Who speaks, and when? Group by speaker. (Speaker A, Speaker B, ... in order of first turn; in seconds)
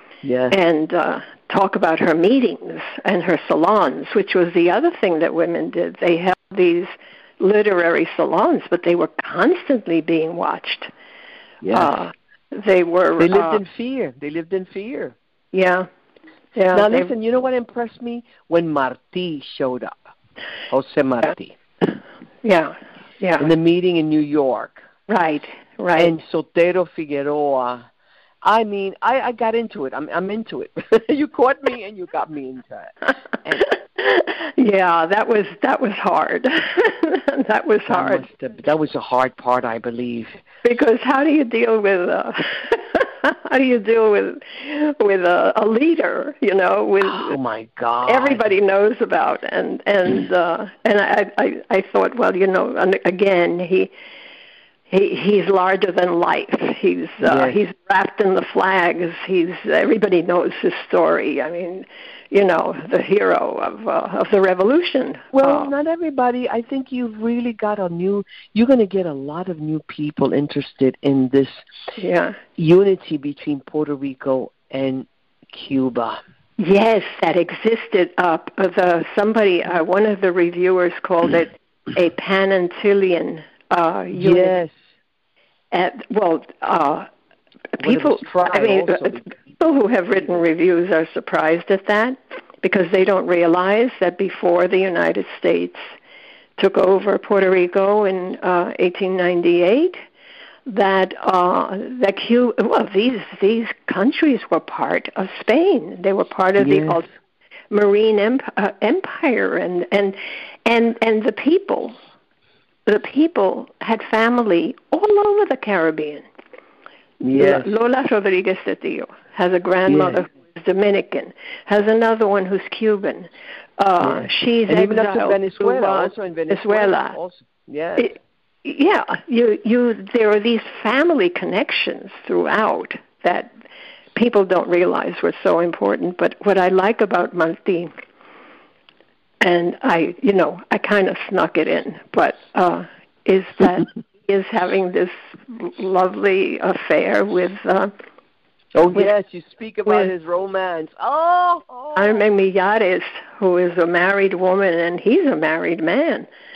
Speaker A: 0.2-0.6, 11.6-12.0, 13.2-15.2, 16.7-20.0, 20.7-21.6, 23.4-24.8, 25.9-27.9, 28.4-33.7, 37.9-40.4, 47.0-48.5, 57.2-57.6, 65.3-71.6, 72.6-76.2, 84.1-84.7, 87.8-89.3, 106.6-107.0, 117.2-117.7, 119.9-120.2, 124.0-128.1, 148.7-152.2
Speaker B: 0.5-10.9, 11.7-13.6, 15.5-15.9, 16.5-17.1, 22.4-23.4, 25.1-26.1, 34.0-38.2, 40.6-47.4, 48.0-53.9, 54.9-65.7, 72.0-72.4, 76.6-84.6, 85.7-87.1, 87.8-95.8, 96.6-100.0, 100.7-107.1, 107.7-112.0, 112.8-116.2, 117.3-127.2, 128.0-133.5, 134.1-137.9, 139.4-147.9, 151.9-156.3